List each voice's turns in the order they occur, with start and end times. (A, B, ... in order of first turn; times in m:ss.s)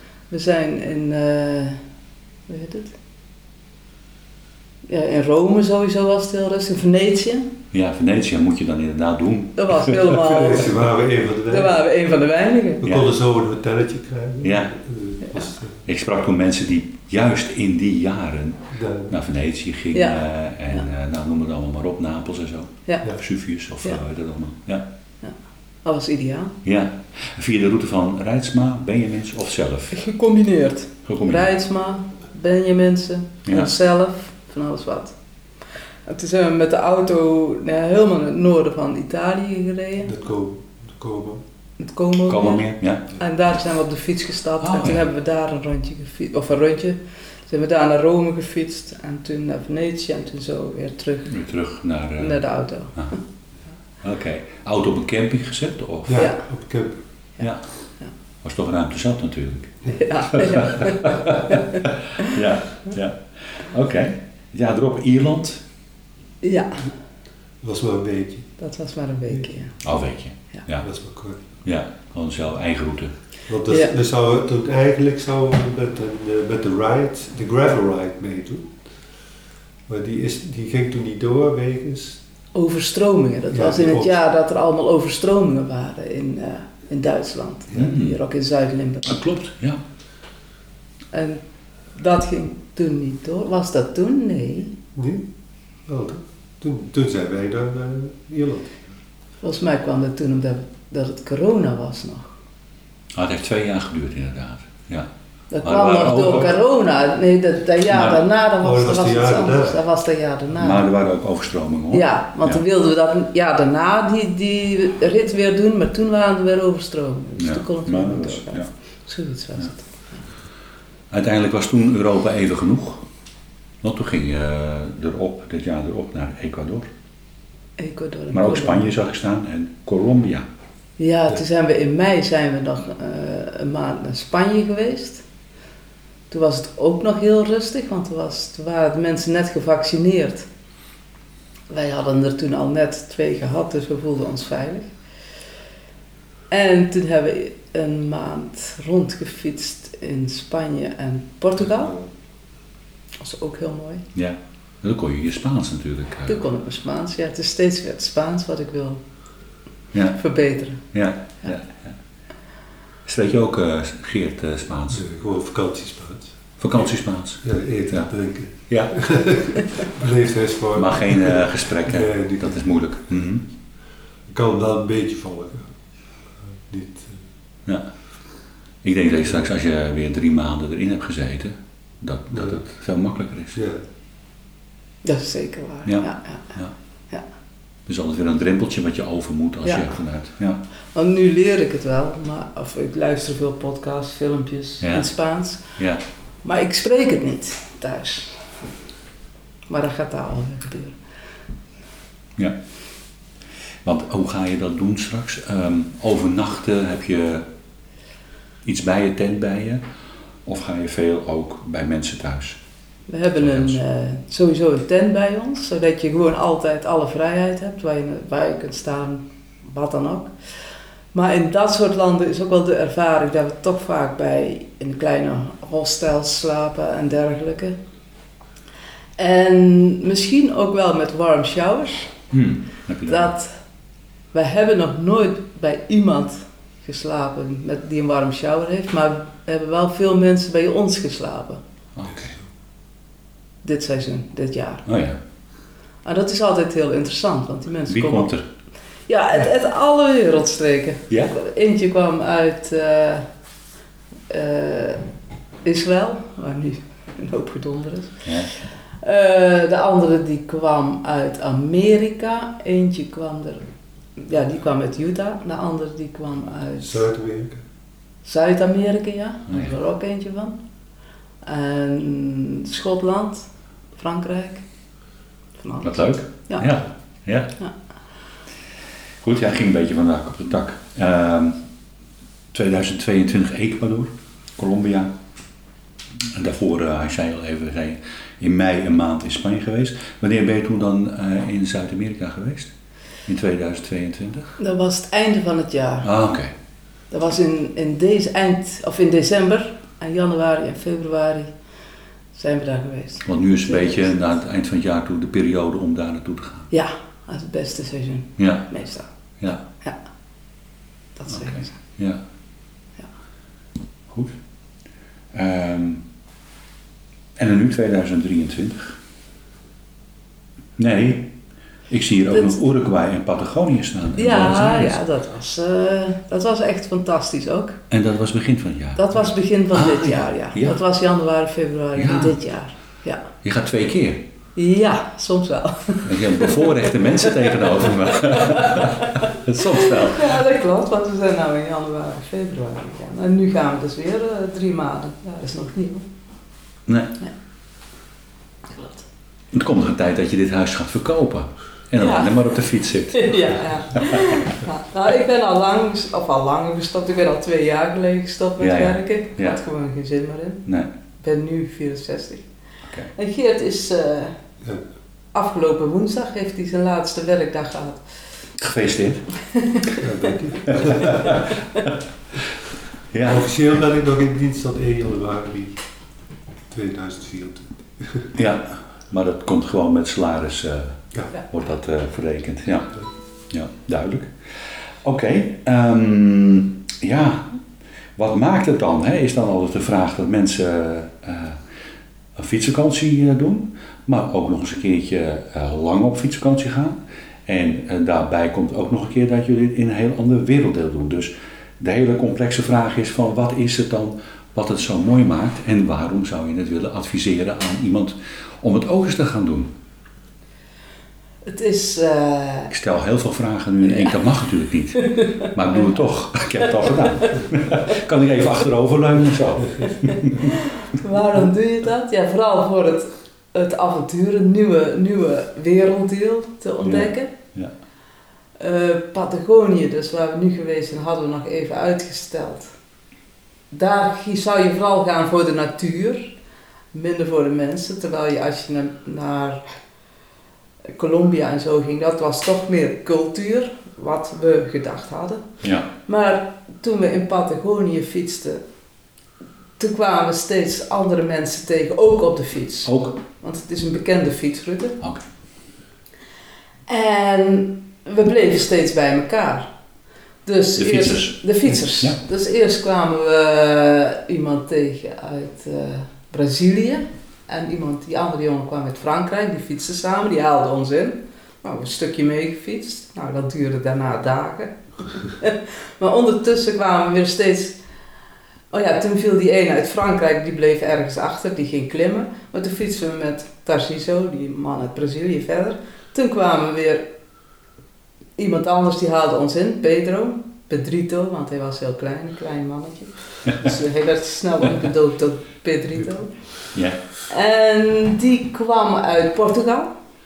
0:00.3-0:01.8 A
0:02.5-0:02.9 A
0:04.9-0:07.5 A
0:07.7-0:10.2 B
0:09.6-0:10.8 A
0:10.2-0:11.8 C
0:11.5-0:12.8 A
0:12.8-0:15.8 C
0:12.8-0:13.1 B
0:14.4-0:14.7 B
0:15.8-0:24.8 B
0:18.7-0:19.1 C
0:25.8-0:26.5 A
0:26.6-0:30.0 B
0:29.9-0:35.1 A
0:31.0-0:31.5 B
0:33.4-0:33.7 B
0:36.0-0:40.1 A
0:40.0-0:41.4 C
0:41.8-0:51.3 A
0:42.3-0:43.1 B
0:44.6-0:45.1 B
0:51.3-0:52.4 B
0:52.2-0:53.1 A
0:54.0-0:56.3 B
0:56.1-0:56.9 C
0:56.2-0:56.4 A
0:58.4-1:05.6 B
0:59.9-1:02.3 A
1:06.4-1:06.8 A
1:07.6-1:08.5 C
1:08.6-1:09.8 A
1:09.8-1:10.9 B
1:10.8-1:11.4 C
1:11.6-1:13.1 B
1:13.5-1:18.8 C
1:19.9-1:22.2 C
1:22.5-1:29.1 A
1:23.5-1:24.2 C
1:27.7-1:28.2 B
1:29.0-1:29.8 B
1:31.1-1:31.4 A
1:31.9-1:34.8 A
1:34.9-1:35.3 C
1:35.8-1:38.9 C
1:39.4-1:42.3 A
1:43.1-1:45.1 B
1:45.5-1:50.9 A
1:45.6-1:46.5 B
1:47.9-1:48.2 B
1:48.6-1:49.8 C
1:50.5-1:52.6 B
1:51.9-2:00.2 A
1:57.4-1:58.7 B
2:01.1-2:03.0 B
2:03.8-2:06.9 B
2:07.8-2:08.9 A
2:08.3-2:10.5 B
2:11.0-2:15.2 A
2:16.3-2:20.5 A
2:21.7-2:24.9 A
2:26.5-2:31.9 A
2:31.7-2:32.1 C
2:33.2-2:34.0 A
2:34.1-2:36.4 B
2:36.3-2:39.0 A
2:39.9-2:40.2 B
2:40.2-2:40.8 A
2:40.9-2:42.0 B
2:43.0-2:45.0 B
2:44.9-2:46.3 C
2:46.6-2:48.1 B
2:47.4-2:52.6 C
2:48.7-2:49.1 B
2:50.7-2:53.4 B
2:54.3-2:55.7 C
2:56.6-2:57.2 C
2:57.6-2:57.9 B
2:58.8-3:03.6 B
3:02.3-3:02.6 C
3:03.5-3:03.8 C
3:05.0-3:06.5 A
3:05.8-3:06.7 B
3:07.9-3:10.6 B
3:10.9-3:15.6 A
3:14.8-3:15.1 B
3:15.8-3:16.0 B
3:16.4-3:18.4 A
3:19.7-3:21.0 A
3:23.8-3:27.5 B
3:28.6-3:29.8 B
3:30.4-3:32.6 B
3:33.1-3:40.3 A
3:33.4-3:33.8 B
3:41.1-3:47.8 A
3:49.2-3:52.1 A
3:52.3-3:53.3 B
3:53.1-3:53.5 A
3:54.3-4:01.6 A
4:02.0-4:02.4 B
4:03.6-4:04.8 A
4:04.8-4:05.2 B
4:06.0-4:08.3 A
4:07.9-4:08.4 B
4:09.1-4:13.2 A
4:14.3-4:15.0 A
4:15.6-4:18.2 A
4:18.2-4:18.5 B
4:19.0-4:23.6 A
4:24.2-4:27.0 A
4:26.8-4:27.6 C
4:28.2-4:30.6 A
4:31.4-4:34.6 A
4:35.6-4:36.7 A
4:35.8-4:37.5 B
4:39.2-4:41.6 B
4:42.5-4:45.1 B
4:46.3-4:52.7 B
4:53.2-4:54.5 B
4:54.6-4:56.1 A
4:56.0-4:56.5 B
4:57.1-5:01.5 A
5:02.3-5:04.2 A
5:03.2-5:06.7 B
5:06.7-5:09.1 A
5:08.4-5:08.7 B
5:11.2-5:11.8 A
5:11.3-5:12.2 B
5:14.1-5:14.4 B
5:15.3-5:16.0 B
5:17.4-5:19.0 B
5:20.8-5:21.3 B
5:21.9-5:25.0 B
5:22.3-5:22.6 A
5:24.2-5:27.8 A
5:27.9-5:30.8 B
5:29.0-5:33.2 A
5:32.0-5:32.4 B
5:33.4-5:34.2 B
5:34.6-5:46.0 A
5:36.0-5:40.4 B
5:46.9-5:47.2 B
5:48.7-5:49.0 A
5:49.5-5:53.4 B
5:52.0-5:52.5 A
5:53.1-6:00.6 A
5:54.0-5:54.4 B
5:58.6-5:59.6 B
6:01.2-6:02.4 A
6:03.1-6:04.3 A
6:05.3-6:08.0 A
6:08.6-6:09.3 B
6:09.5-6:10.0 A
6:10.0-6:11.4 C
6:10.7-6:11.9 B
6:13.1-6:13.5 B
6:13.2-6:15.8 C
6:16.7-6:18.3 C
6:18.3-6:23.0 B
6:23.5-6:24.3 B
6:25.0-6:27.6 B
6:28.2-6:31.6 B
6:32.4-6:49.7 B
6:51.4-6:52.7 A
6:52.7-7:00.5 B
6:53.8-6:54.2 A
6:55.0-6:56.0 A
7:00.0-7:07.3 A
7:06.8-7:07.7 B
7:08.6-7:12.7 A
7:13.7-7:16.3 A
7:16.9-7:19.6 A
7:20.9-7:25.5 A
7:25.6-7:25.9 B
7:26.0-7:28.6 A
7:29.8-7:35.0 A
7:32.8-7:33.2 B
7:36.9-7:39.7 A
7:40.4-7:57.8 A
7:40.8-7:42.2 B
7:58.7-8:07.0 A
8:08.4-8:16.3 A
8:16.7-8:17.0 B
8:17.3-8:19.9 A